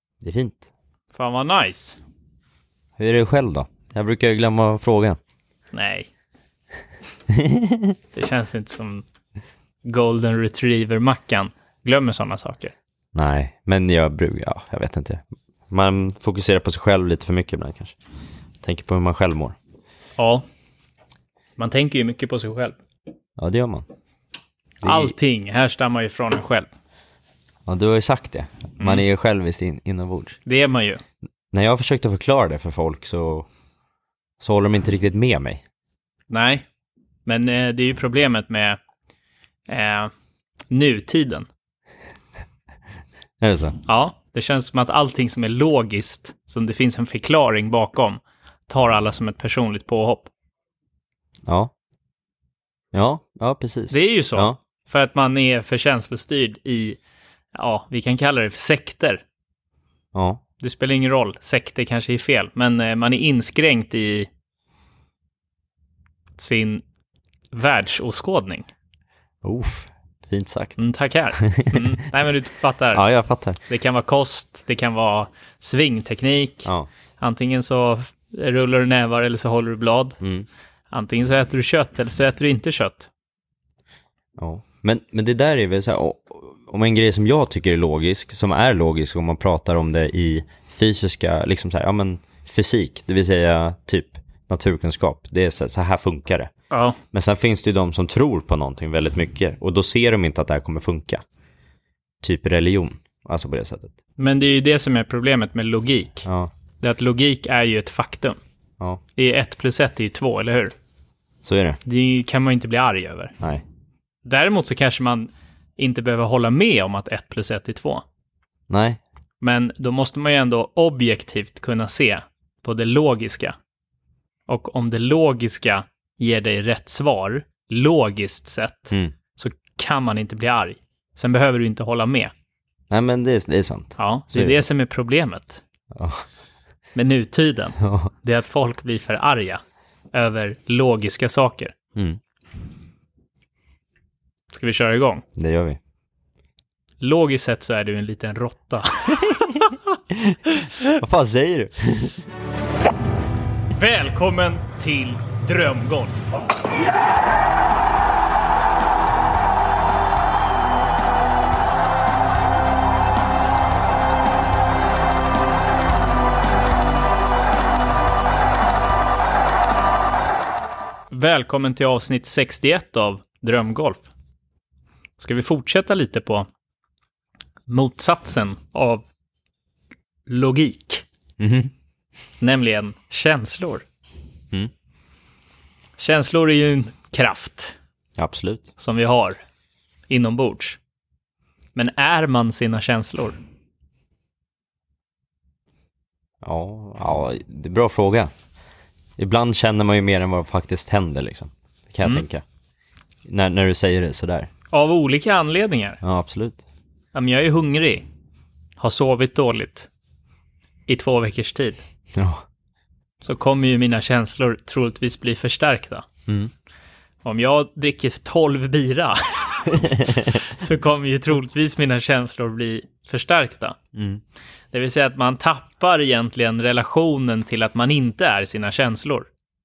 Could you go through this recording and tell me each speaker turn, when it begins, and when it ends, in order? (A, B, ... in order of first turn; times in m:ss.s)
0:00.2-0:00.7 A
0:01.1-0:02.0 B
0:03.0-0:05.2 A
0:05.7-0:06.1 B
0:07.3-0:07.9 A
0:08.1-0:09.0 B
0:09.8-0:12.7 B
0:13.1-0:18.0 A
0:18.6-0:19.6 A
0:20.2-0:20.4 B
0:21.6-0:22.8 B
0:23.4-0:23.8 A
0:24.8-0:25.1 A
0:24.8-0:26.7 B
0:27.6-0:30.4 A
0:30.4-0:31.0 B
0:31.5-0:33.5 A
0:34.4-0:35.6 A
0:36.3-0:36.6 B
0:37.2-0:38.8 B
0:39.7-0:40.1 B
0:40.7-0:41.5 B
0:43.4-0:43.8 A
0:43.9-0:50.3 B
0:51.5-0:51.7 A
0:52.9-0:54.6 A
0:53.9-0:57.0 B
0:57.5-0:59.2 B
1:00.1-1:00.4 A
1:00.6-1:04.3 B
1:06.4-1:06.8 B
1:07.5-1:08.7 B
1:09.4-1:10.8 A
1:10.8-1:13.0 B
1:11.4-1:11.7 A
1:12.9-1:13.6 A
1:13.7-1:20.2 B
1:20.2-1:20.5 A
1:20.9-1:23.1 B
1:24.4-1:36.5 A
1:36.7-1:37.0 B
1:37.1-1:41.2 A
1:42.2-1:43.9 A
1:44.2-1:46.3 B
1:46.2-1:46.5 A
1:46.8-1:48.4 B
1:49.2-1:50.7 B
1:51.4-1:51.8 A
1:51.8-1:53.3 B
1:54.2-1:58.0 B
1:58.7-1:59.0 A
1:59.4-2:03.6 B
2:04.5-2:12.3 B
2:12.9-2:14.6 A
2:14.0-2:15.6 B
2:15.9-2:16.2 A
2:16.9-2:19.6 B
2:17.8-2:18.1 A
2:20.1-2:21.7 B
2:21.9-2:22.2 A
2:24.5-2:25.2 B
2:25.4-2:25.8 A
2:27.0-2:29.8 B
2:30.1-2:32.2 A
2:33.7-2:36.2 B
2:51.1-2:54.1 B
2:55.2-2:56.5 B
2:57.7-2:59.0 B
3:00.3-3:01.0 B
3:01.4-3:01.7 A
3:02.4-3:03.8 B
3:06.0-3:07.8 B
3:08.2-3:08.7 A
3:08.8-3:09.4 B
3:10.1-3:10.8 B
3:11.7-3:13.4 B
3:16.4-3:18.3 A
3:19.2-3:22.4 A
3:23.2-3:24.5 A
3:24.7-3:26.0 B
3:26.0-3:26.6 A
3:27.1-3:28.1 B
3:28.8-3:29.9 B
3:30.9-3:31.8 B
3:32.1-3:32.4 A
3:33.2-3:36.0 B
3:37.2-3:43.8 B
3:43.9-3:44.2 A
3:44.7-3:49.3 B